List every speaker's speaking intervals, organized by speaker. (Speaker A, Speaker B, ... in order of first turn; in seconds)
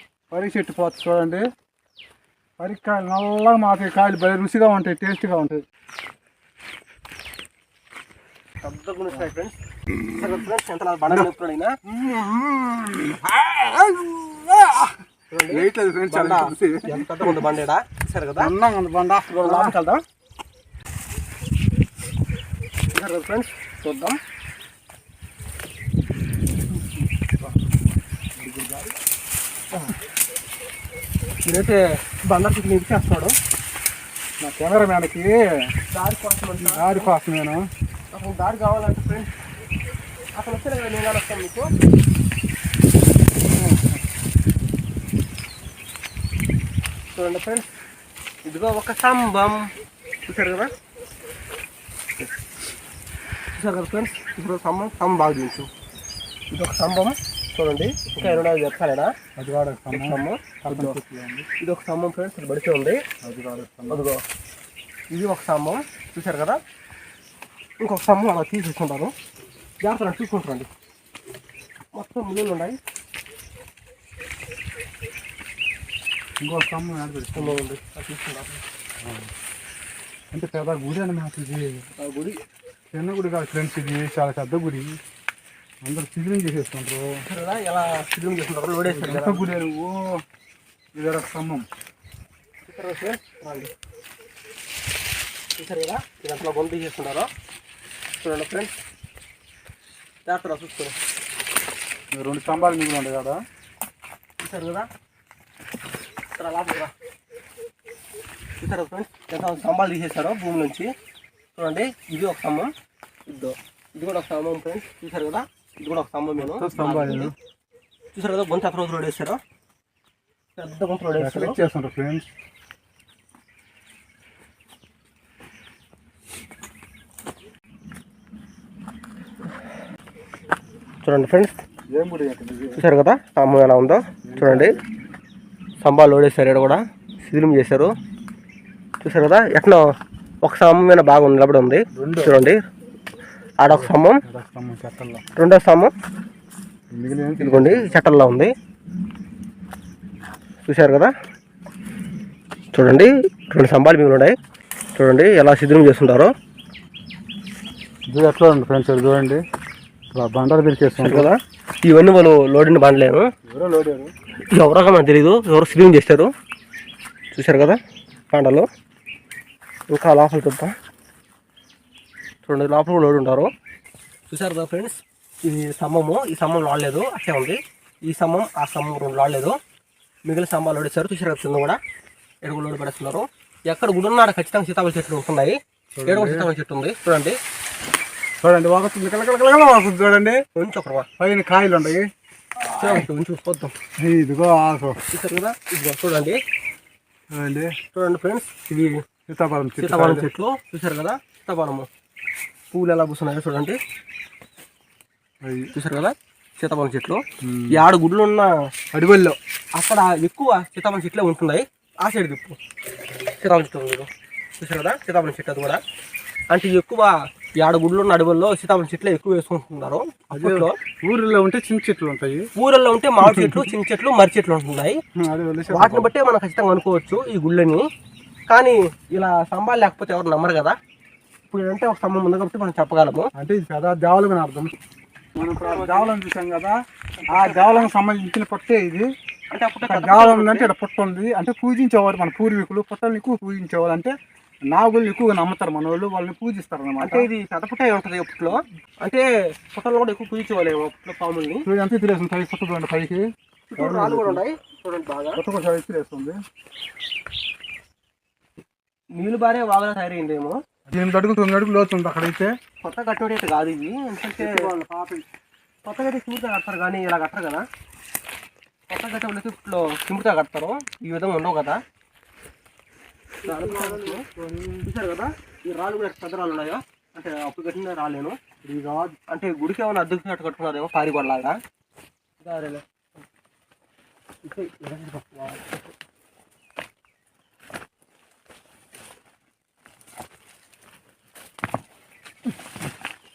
Speaker A: 0.3-1.4, 2.6-5.6, 11.8-15.0, 15.5-17.5, 18.4-19.8, 26.7-27.5, 28.4-28.9, 34.4-35.4, 36.6-37.7, 43.4-44.0, 58.2-58.5, 59.4-61.5, 63.2-64.0, 76.4-77.6, 79.0-79.3, 80.3-81.8, 82.9-85.0, 85.8-87.2, 88.8-90.1, 90.9-91.6, 102.1-103.4, 116.4-117.3, 121.2-122.3, 131.9-132.8, 134.2-134.8, 141.9-142.4, 143.7-145.2, 146.9-148.0, 158.1-159.4, 160.1-161.3, 163.5-164.1, 185.9-186.5, 188.4-190.4, 191.2-192.1, 192.7-193.1, 194.0-195.0, 197.3-197.7, 199.3-200.3, 205.4-205.7, 207.4-207.8, 208.9-209.4, 220.3-222.5, 223.2-223.7, 225.2-226.1, 233.3-234.7, 235.4-236.7, 237.3-239.1, 239.8-244.1, 244.7-247.3, 251.6-253.3, 253.8-254.4, 255.3-256.3, 260.9-262.5, 264.4-265.2, 273.4-274.9, 278.6-279.2
Speaker B: 8.6-11.7, 15.3-18.5, 19.4-20.0, 22.9-24.2, 31.4-33.3, 35.9-37.1, 38.1-39.3, 40.3-41.7, 47.1-47.7, 48.5-49.7, 50.2-50.7, 53.5-55.7, 56.5-59.1, 59.9-61.0, 61.6-63.0, 63.9-64.2, 65.1-66.6, 67.8-69.1, 69.8-70.7, 71.9-72.8, 77.3-78.6, 82.0-82.4, 87.2-89.5, 92.6-93.7, 95.6-97.3, 98.2-98.7, 100.2-100.9, 104.4-104.9, 106.3-106.9, 108.6-110.9, 111.5-112.7, 113.3-117.3, 118.1-119.4, 120.6-121.6, 131.0-131.5, 132.8-134.8, 135.8-137.9, 139.0-139.8, 140.4-142.6, 143.6-144.2, 145.3-145.9, 147.4-148.5, 150.7-151.1, 152.7-154.3, 154.9-156.3, 161.0-163.3, 164.5-166.3, 167.3-167.8, 168.3-168.7, 169.9-170.7, 172.4-173.5, 174.3-179.6, 180.2-181.8, 182.4-187.4, 190.5-191.1, 192.6-193.7, 195.1-196.4, 197.9-199.0, 199.8-201.9, 202.7-203.8, 205.7-208.5, 209.7-212.6, 213.3-215.8, 216.5-220.8, 222.6-225.0, 225.7-227.8, 228.5-230.8, 231.5-233.3, 235.6-236.1, 237.3-237.9, 239.5-240.7, 247.0-251.7, 253.7-255.4, 259.2-260.6, 262.8-264.7, 265.8-267.6, 268.9-271.8, 273.4-274.2, 274.8-278.4, 279.3-281.6, 282.4-282.8, 284.4-285.9